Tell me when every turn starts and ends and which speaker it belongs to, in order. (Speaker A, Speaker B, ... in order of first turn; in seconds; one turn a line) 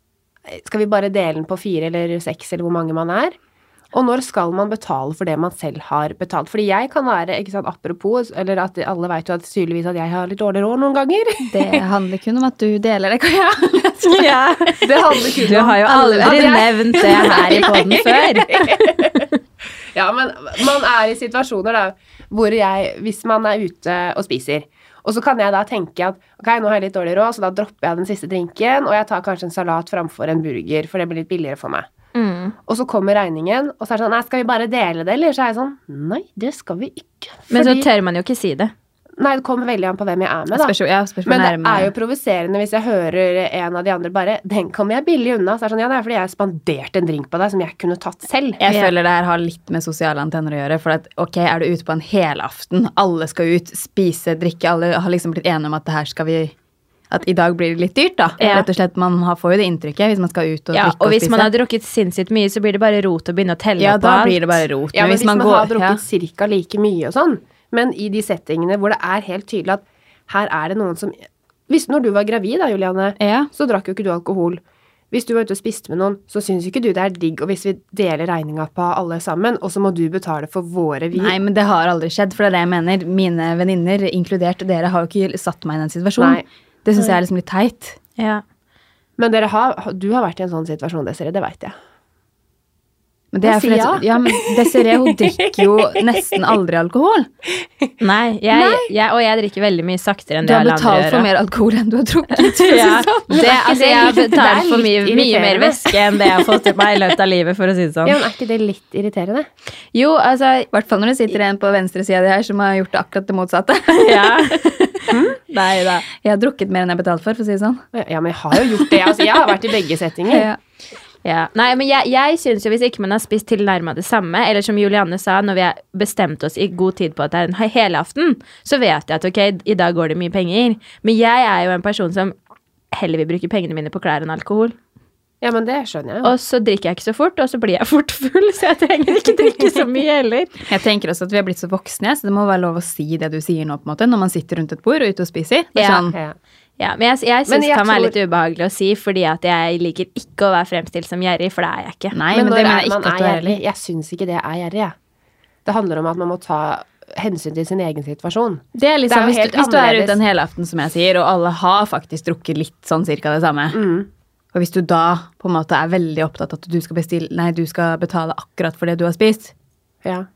Speaker A: 0.5-3.3
Speaker A: 3.9-11.8
Speaker B: 11.5-14.4
Speaker C: 14.0-14.9
Speaker A: 14.8-19.3
Speaker C: 15.4-18.8
Speaker B: 16.2-16.6
Speaker A: 19.9-31.9
Speaker C: 32.1-32.5
Speaker A: 32.6-37.9
Speaker C: 37.5-38.7
Speaker A: 39.2-48.6
Speaker B: 40.5-41.9
Speaker B: 48.6-56.5
Speaker B: 57.1-61.5
Speaker C: 58.4-58.7
Speaker C: 60.7-64.6
Speaker B: 63.8-66.0
Speaker A: 64.9-71.2
Speaker A: 71.7-81.4
Speaker B: 73.2-73.5
Speaker B: 81.1-88.0
Speaker A: 86.2-86.4
Speaker C: 88.2-88.4
Speaker A: 89.2-91.7
Speaker B: 93.3-97.3
Speaker A: 93.4-96.4
Speaker C: 98.0-101.3
Speaker A: 98.5-98.9
Speaker B: 100.4-103.5
Speaker C: 102.3-108.2
Speaker A: 103.3-105.9
Speaker A: 108.0-109.5
Speaker C: 109.9-110.7
Speaker B: 110.7-115.1
Speaker C: 113.9-116.0
Speaker A: 115.1-115.4
Speaker B: 116.1-117.8
Speaker A: 117.9-120.5
Speaker B: 118.5-119.1
Speaker B: 120.3-120.6
Speaker C: 121.2-132.3
Speaker C: 132.9-134.8
Speaker A: 135.4-136.3
Speaker C: 136.2-140.6
Speaker B: 140.7-146.2
Speaker C: 145.8-146.1
Speaker C: 146.8-152.2
Speaker A: 147.5-148.2
Speaker B: 152.1-153.6
Speaker A: 152.3-154.9
Speaker A: 155.6-160.2
Speaker B: 158.8-163.8
Speaker A: 163.7-164.1
Speaker B: 164.5-169.5